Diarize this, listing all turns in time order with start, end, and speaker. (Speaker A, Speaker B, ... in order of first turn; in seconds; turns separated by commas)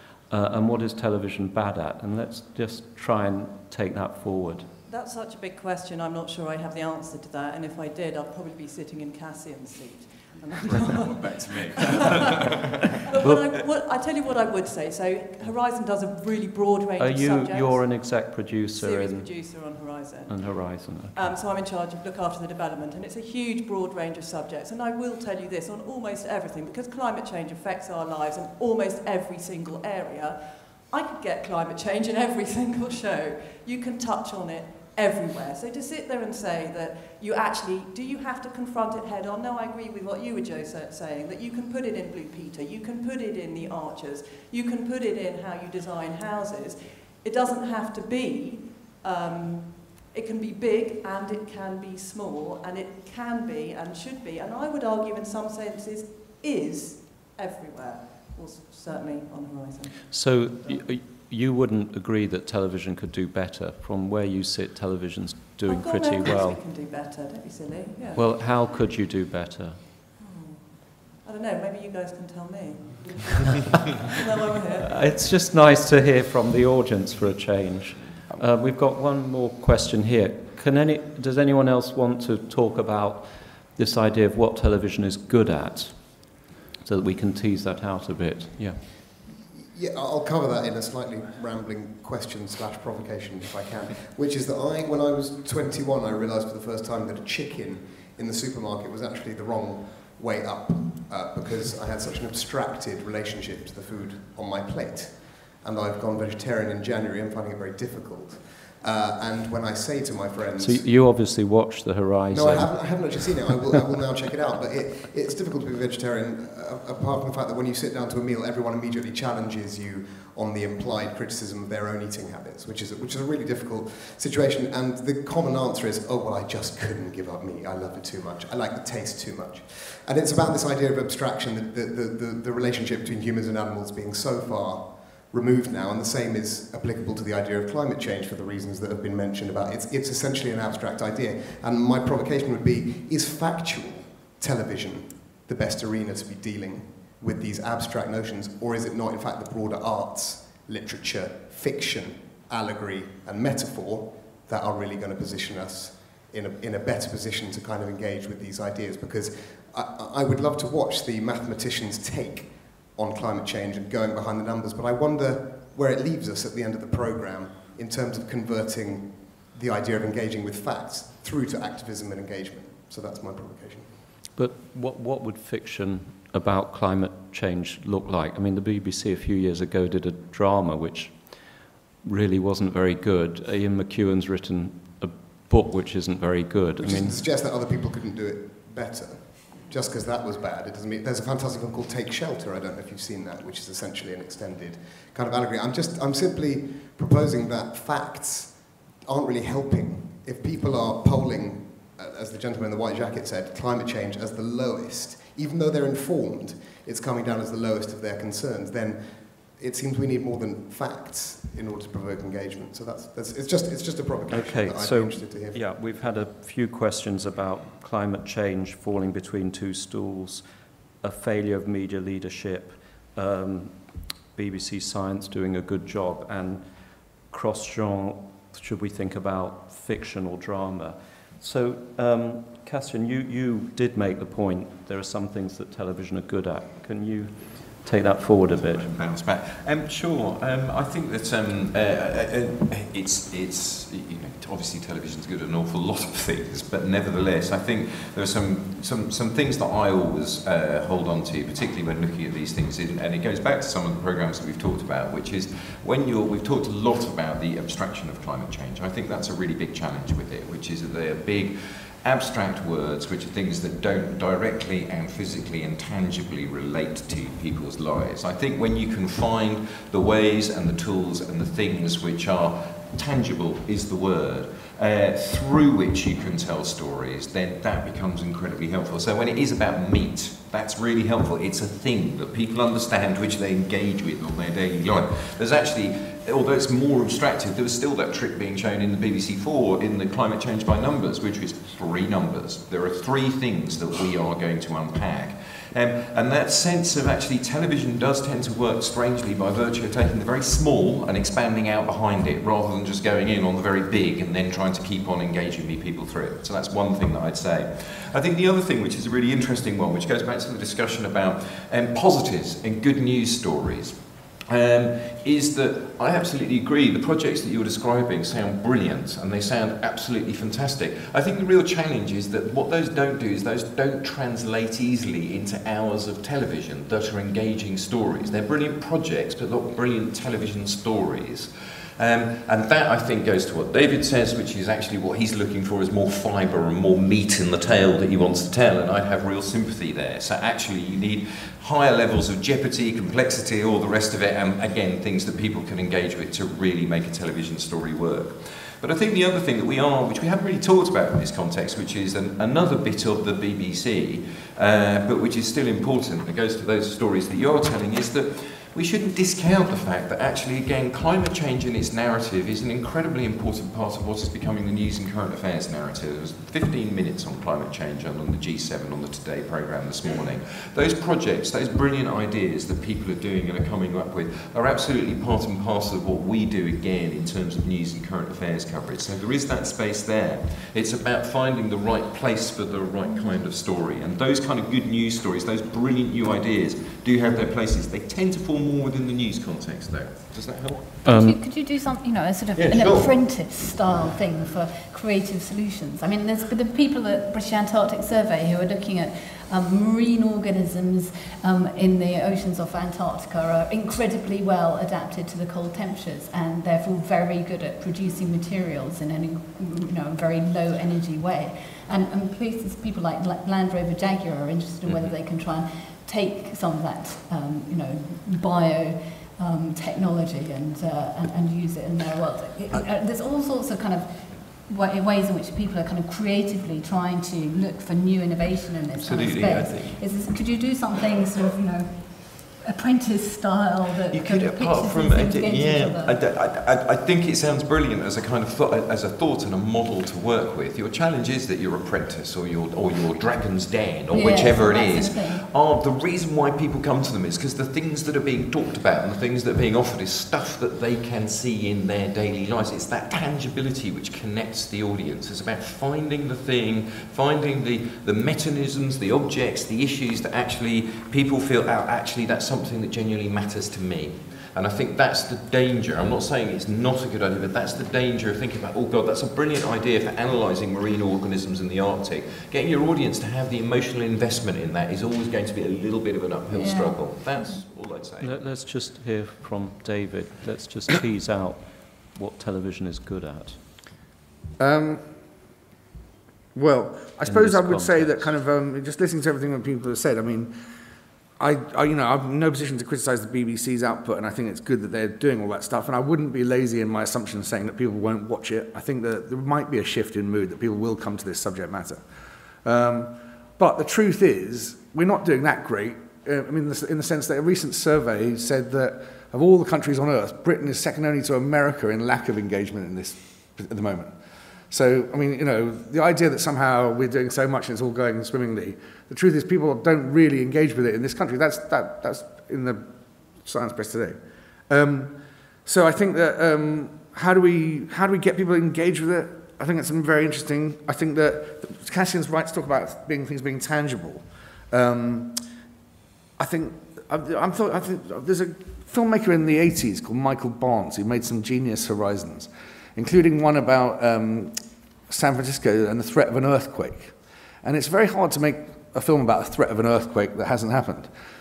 Speaker A: 0.3-4.7, Speaker B: 4.9-12.5, Speaker C: 10.6-12.7, Speaker B: 13.1-60.9, Speaker A: 13.1-13.5, Speaker A: 17.0-19.4, Speaker A: 20.2-21.3, Speaker A: 60.1-66.6, Speaker B: 65.6-68.7, Speaker A: 68.1-69.9, Speaker B: 70.2-75.0, Speaker A: 74.8-88.8, Speaker D: 89.2-111.2, Speaker A: 110.5-113.8, Speaker D: 112.3-173.9, Speaker A: 174.3-187.2, Speaker D: 186.8-216.0, Speaker A: 214.3-238.9, Speaker C: 238.5-390.9, Speaker A: 391.0-391.4, Speaker E: 391.0-436.1, Speaker C: 392.6-393.1, Speaker C: 414.9-415.1, Speaker C: 429.0-430.0, Speaker C: 434.1-478.4, Speaker E: 444.1-445.4, Speaker A: 478.2-483.6, Speaker F: 484.6-485.0, Speaker F: 486.5-490.5, Speaker A: 487.2-488.3, Speaker F: 491.4-502.0, Speaker F: 502.6-514.1, Speaker F: 514.7-522.9, Speaker F: 523.4-524.1, Speaker F: 524.7-535.4, Speaker F: 536.4-544.5, Speaker F: 545.1-551.1